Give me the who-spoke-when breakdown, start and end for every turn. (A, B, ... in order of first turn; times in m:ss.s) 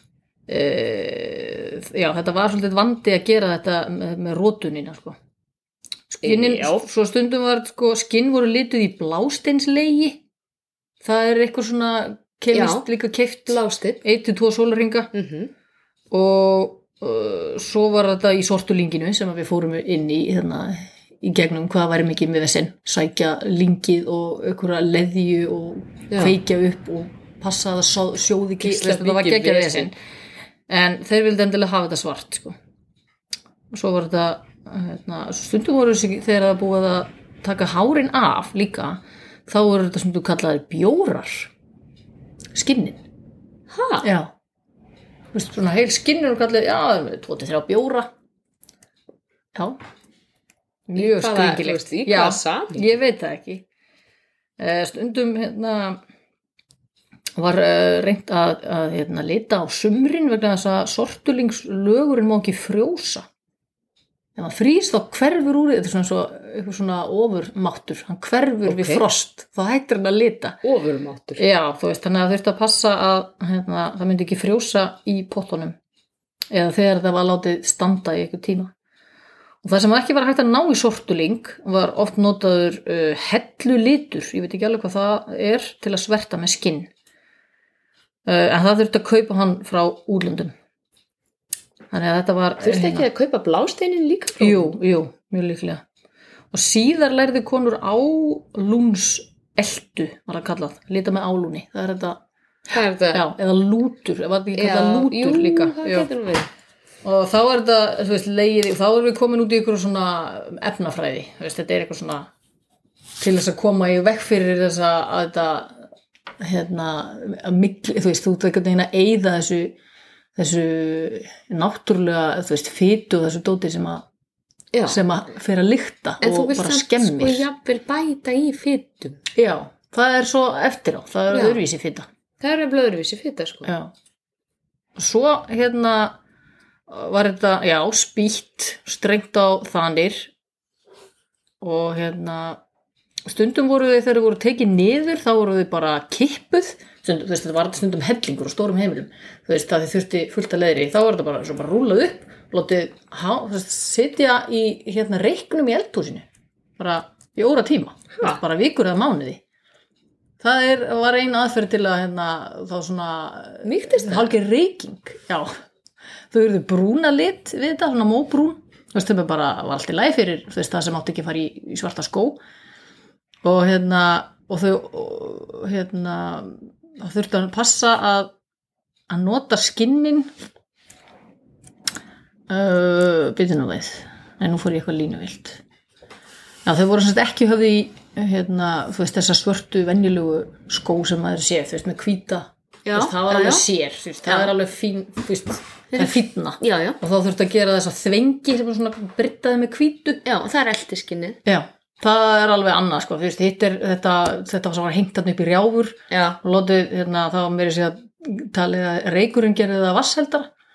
0:00.5-0:05.2 A
0:06.1-0:10.2 A
0:06.2-0:06.8 B
0:11.0-0:15.1 A
0:12.5-0:12.9 B
0:13.5-0:14.0 B
0:15.1-0:15.5 B
0:16.1-0:29.9 A
0:26.1-0:26.4 B
0:28.6-0:29.9 B
0:30.7-0:32.6 A
0:33.7-0:41.5 A
0:42.5-0:43.0 A
0:43.7-0:44.1 B
0:44.0-0:44.3 A
0:45.3-0:48.1 A
0:50.9-0:53.6 A
0:50.9-0:52.9 B
0:54.6-0:56.0 A
0:57.4-1:03.2 A
1:04.4-1:10.6 A
1:08.6-1:09.0 B
1:10.6-1:11.4 B
1:11.4-1:15.8 A
1:16.5-1:18.7 A
1:19.6-1:26.9 A
1:28.2-1:30.5 A
1:31.9-1:33.1 A
1:32.6-1:34.7 B
1:34.4-1:35.8 A
1:36.5-1:42.2 A
1:42.7-1:43.3 B
1:43.1-1:46.1 A
1:44.5-1:46.5 B
1:47.0-1:52.3 A
1:53.2-1:55.9 A
1:56.4-1:59.8 A
2:00.4-2:04.0 A
2:04.7-2:05.0 B
2:04.9-2:07.4 A
2:06.2-2:09.2 B
2:09.3-2:12.1 A
2:11.3-2:11.6 B
2:12.4-2:13.7 B
2:13.7-2:13.9 A
2:15.0-2:16.2 A
2:16.9-2:20.3 A
2:21.6-2:22.6 A
2:23.2-2:36.2 A
2:36.8-2:39.4 A
2:40.4-2:45.5 A
2:43.6-2:44.3 B
2:46.3-2:52.4 A
2:53.4-2:58.3 A
2:59.1-3:00.3 A
3:02.5-3:05.6 A
3:06.6-3:20.2 A
3:12.8-3:13.6 B
3:14.2-3:14.5 B
3:15.9-3:17.0 B
3:20.2-3:21.4 B
3:21.4-3:30.5 A
3:26.1-3:26.4 B